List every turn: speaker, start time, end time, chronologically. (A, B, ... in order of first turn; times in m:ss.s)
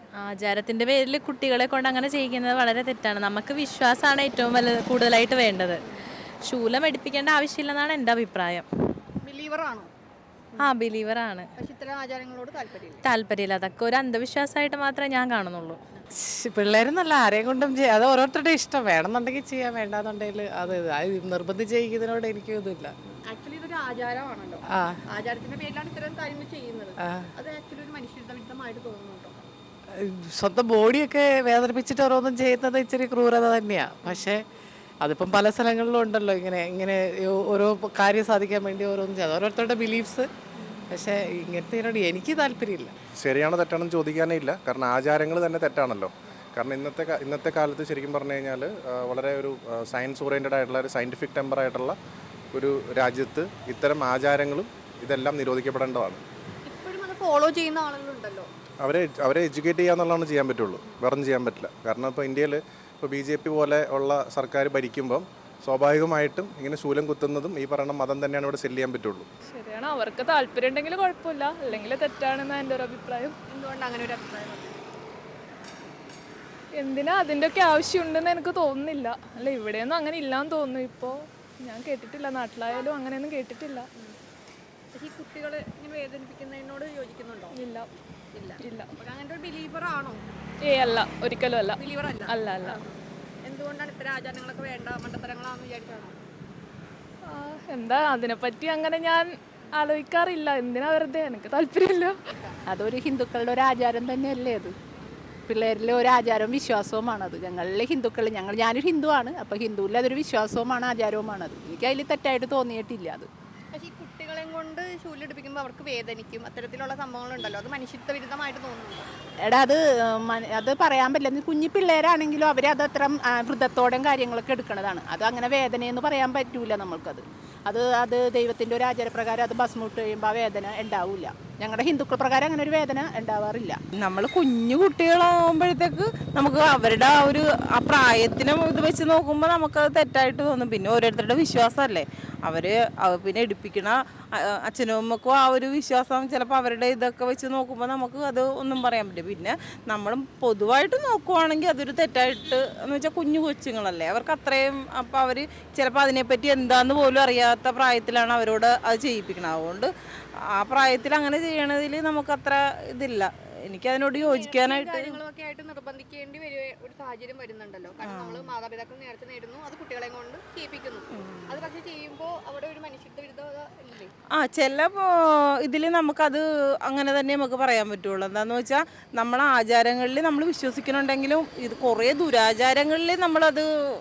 0:00.2-0:05.8 A
0:06.5-0:08.7 A
0:09.2-0:09.9 B
0:10.6-0:11.5 A
0:11.6-0:13.0 B
0:13.0-0:15.8 A
0:16.2-0:23.0 C
0:23.3-0:29.4 B
0:30.0-0:34.4 C
0:35.0-0:40.3 C
0:40.9-0:42.9 C
0:43.2-0:52.0 D
0:52.5-0:56.2 D
0:56.6-0:58.5 B
0:58.8-1:09.3 D
1:09.5-1:13.4 E
1:13.5-1:14.8 B
1:16.8-1:23.9 E
1:24.9-1:27.6 B
1:27.5-1:27.9 E
1:28.3-1:30.2 B
1:28.6-1:28.9 E
1:30.7-1:32.7 E
1:31.8-1:36.2 B
1:37.3-1:42.2 E
1:42.3-1:42.6 B
1:42.7-1:44.7 F
1:45.5-1:53.3 F
1:45.9-1:46.3 B
1:53.7-1:59.1 B
1:59.4-2:13.8 F
2:13.9-2:39.9 G
2:40.6-2:44.9 G
2:40.7-2:41.0 B
2:44.2-2:54.1 B
2:48.1-2:48.4 G
2:54.3-2:55.1 G
2:55.6-3:03.7 G